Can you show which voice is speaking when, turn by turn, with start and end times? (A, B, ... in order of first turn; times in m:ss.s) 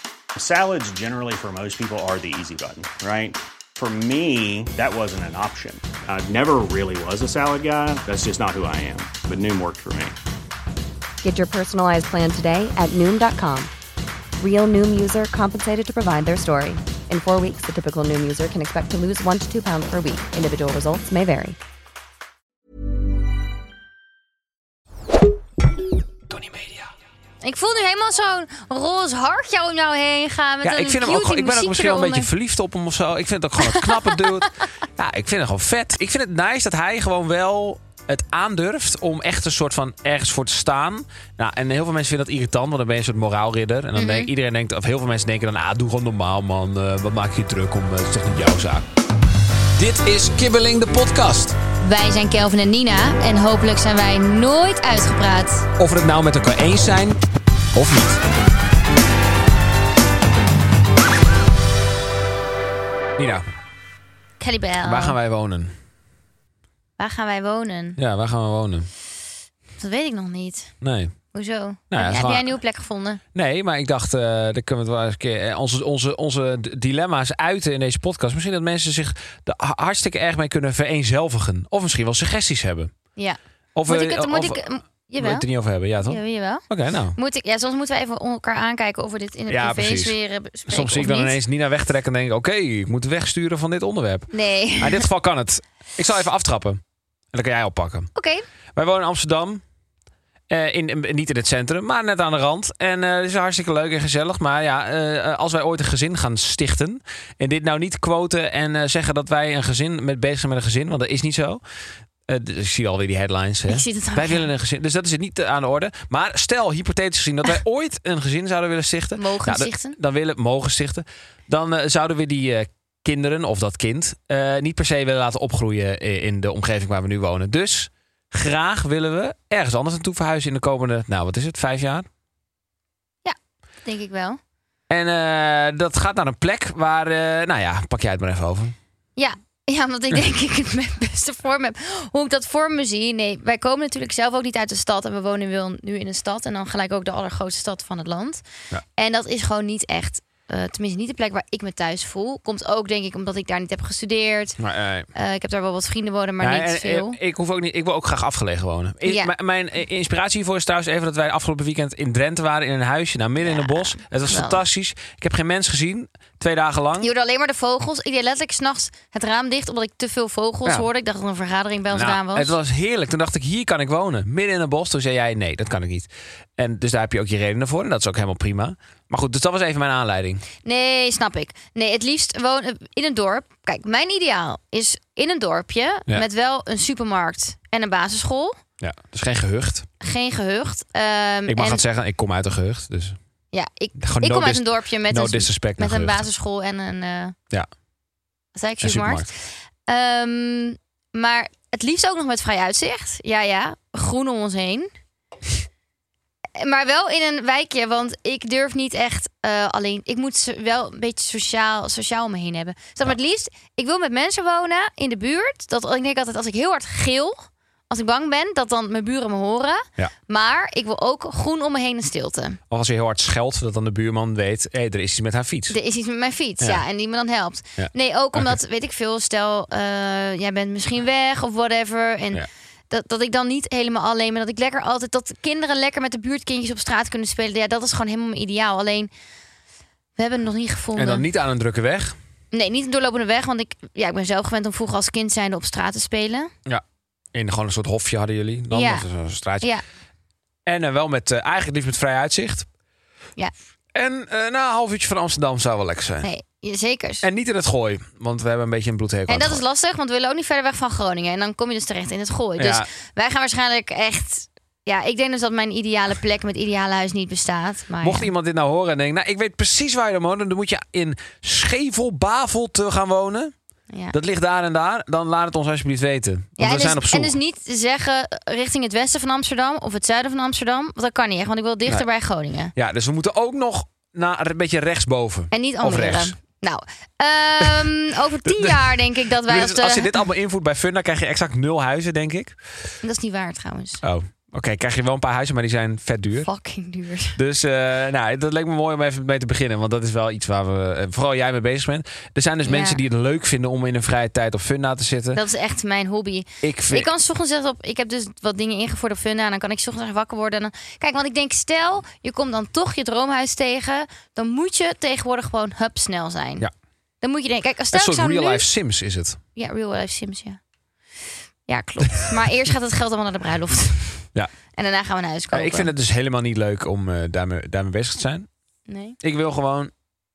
0:00.4-0:10.2 A
0:11.2-0:13.7 B
0:14.4-0:21.6 B
0:26.3-0:26.9 C
0:27.4-0:32.3 D
0:30.6-0:48.8 C
0:33.6-0:34.4 D
0:43.9-0:44.3 D
0:49.8-0:51.6 C
0:51.8-0:55.7 D
0:55.8-0:57.2 C
0:57.7-0:58.2 C
1:03.2-1:03.4 C
1:04.4-1:05.2 D
1:04.8-1:05.7 C
1:07.0-1:08.0 D
1:08.0-1:08.9 C
1:09.8-1:10.7 D
1:10.8-1:11.1 C
1:11.3-1:13.2 D
1:11.9-1:12.5 C
1:13.3-1:22.9 C
1:23.2-1:25.4 D
1:23.7-1:24.6 C
1:25.2-1:27.2 C
1:26.0-1:26.6 D
1:27.2-1:31.4 D
1:29.5-1:30.1 C
1:30.7-1:36.8 C
1:34.3-1:35.0 D
1:37.3-1:38.1 C
1:38.1-1:38.4 D
1:38.7-1:39.6 C
1:40.5-1:51.6 C
1:52.2-2:12.1 C
1:53.7-1:54.5 D
1:59.2-2:00.0 D
2:13.2-2:14.4 D
2:14.9-2:18.8 C
2:19.2-2:28.4 D
2:29.0-2:34.6 D
2:34.6-2:35.1 C
2:35.1-2:37.2 D
2:36.4-2:47.1 C
2:39.0-2:39.3 D
2:43.4-2:44.6 D
2:47.0-2:52.5 D
2:51.9-3:00.4 C
3:00.6-3:08.6 D
3:08.8-3:09.9 C
3:10.0-3:11.8 D
3:11.5-3:13.2 C
3:13.5-3:17.3 D
3:14.0-3:16.2 C
3:18.5-3:19.2 D
3:18.8-3:19.3 C
3:19.9-3:24.9 D
3:26.6-3:42.6 D
3:42.7-3:45.8 C
3:45.7-3:59.1 D
3:47.8-3:48.6 C
4:00.2-4:01.3 D
4:01.0-4:02.2 C
4:02.5-4:06.5 D
4:07.3-4:09.7 C
4:08.7-4:09.1 D
4:10.6-4:12.7 C
4:13.9-4:16.3 C
4:16.2-4:17.2 D
4:17.2-4:19.6 C
4:19.3-4:28.3 D
4:22.6-4:22.9 C
4:28.0-4:33.5 C
4:34.1-4:37.4 C
4:36.6-4:42.7 D
4:42.7-4:46.4 C
4:45.5-4:50.1 D
4:47.6-4:47.9 C
4:48.4-4:52.6 C
4:53.0-4:54.0 D
4:54.0-4:56.5 C
4:56.4-4:57.4 D
4:57.4-5:05.4 C
5:02.6-5:03.0 D
5:05.3-5:16.6 D
5:06.6-5:07.1 C
5:17.2-5:18.6 D
5:17.9-5:19.4 C
5:19.6-5:20.6 D
5:21.7-5:25.9 D
5:25.5-5:28.5 C
5:28.9-5:29.2 D
5:29.2-5:29.9 C